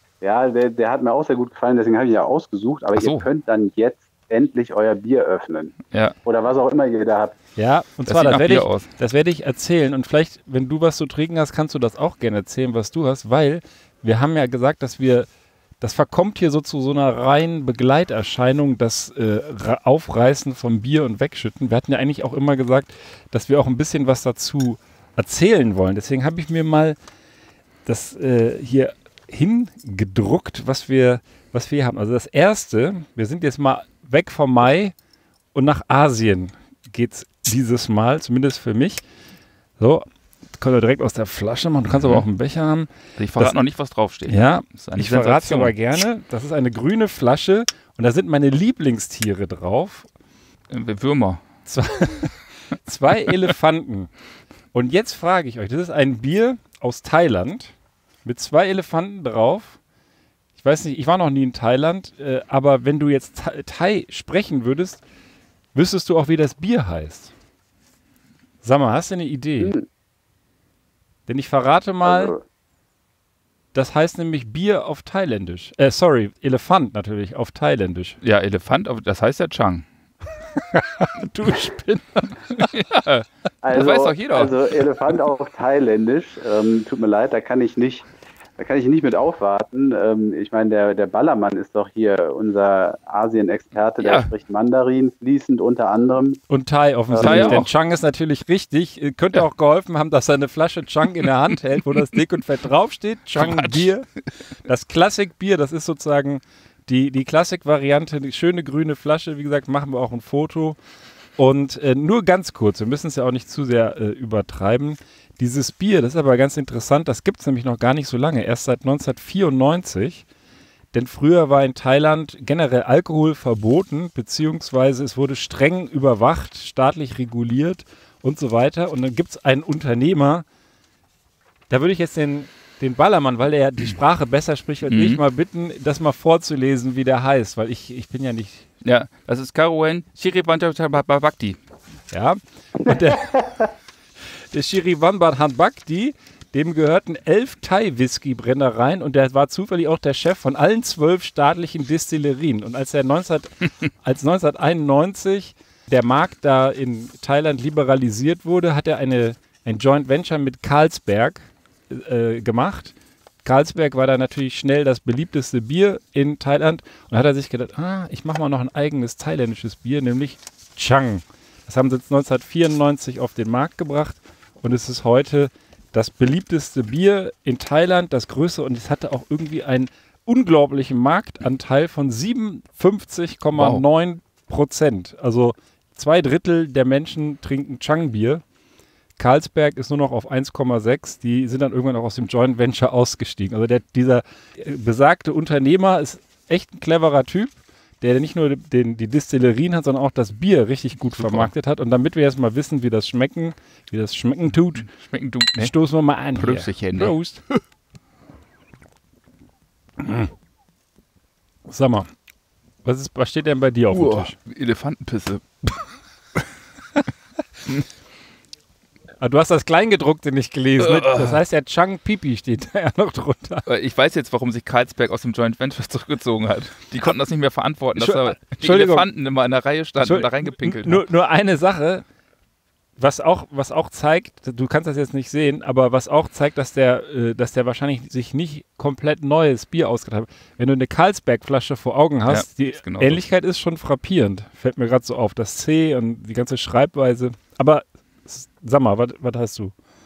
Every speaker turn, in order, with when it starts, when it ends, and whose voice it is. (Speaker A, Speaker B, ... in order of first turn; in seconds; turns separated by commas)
Speaker A: 0.2-7.4, Speaker B: 3.0-3.3, Speaker C: 7.6-15.3, Speaker B: 8.1-8.9, Speaker C: 15.8-27.0, Speaker C: 27.9-34.9, Speaker C: 35.5-39.0, Speaker C: 39.8-40.1, Speaker C: 40.6-43.5, Speaker B: 41.9-42.3, Speaker B: 43.2-45.8, Speaker C: 44.3-50.1, Speaker B: 50.7-51.5, Speaker C: 51.7-54.1, Speaker C: 54.7-57.7, Speaker C: 58.2-59.8, Speaker C: 60.6-65.0, Speaker C: 65.7-67.3, Speaker C: 68.6-69.7, Speaker A: 69.6-69.8, Speaker C: 71.3-72.3, Speaker A: 72.0-72.4, Speaker C: 73.7-78.2, Speaker B: 78.2-79.9, Speaker C: 80.6-82.7, Speaker B: 82.6-84.5, Speaker A: 83.6-96.4, Speaker B: 94.0-94.3, Speaker C: 96.5-104.1, Speaker A: 97.1-97.7, Speaker B: 97.2-97.7, Speaker B: 103.3-103.9, Speaker C: 104.6-110.8, Speaker C: 111.4-120.2, Speaker C: 120.9-130.4, Speaker C: 131.7-138.7, Speaker B: 134.9-135.2, Speaker B: 138.8-141.6, Speaker C: 142.1-143.5, Speaker C: 144.5-162.9, Speaker C: 163.4-188.4, Speaker B: 183.5-183.8, Speaker C: 189.2-204.9, Speaker B: 201.1-201.5, Speaker B: 204.5-205.7, Speaker C: 205.6-207.4, Speaker B: 206.4-207.2, Speaker C: 210.0-210.3, Speaker C: 211.7-212.1, Speaker C: 212.8-214.3, Speaker B: 213.9-215.9, Speaker C: 219.2-223.7, Speaker B: 220.8-221.4, Speaker B: 223.7-231.1, Speaker C: 228.0-229.1, Speaker C: 230.0-232.1, Speaker C: 233.0-249.7, Speaker B: 242.3-243.2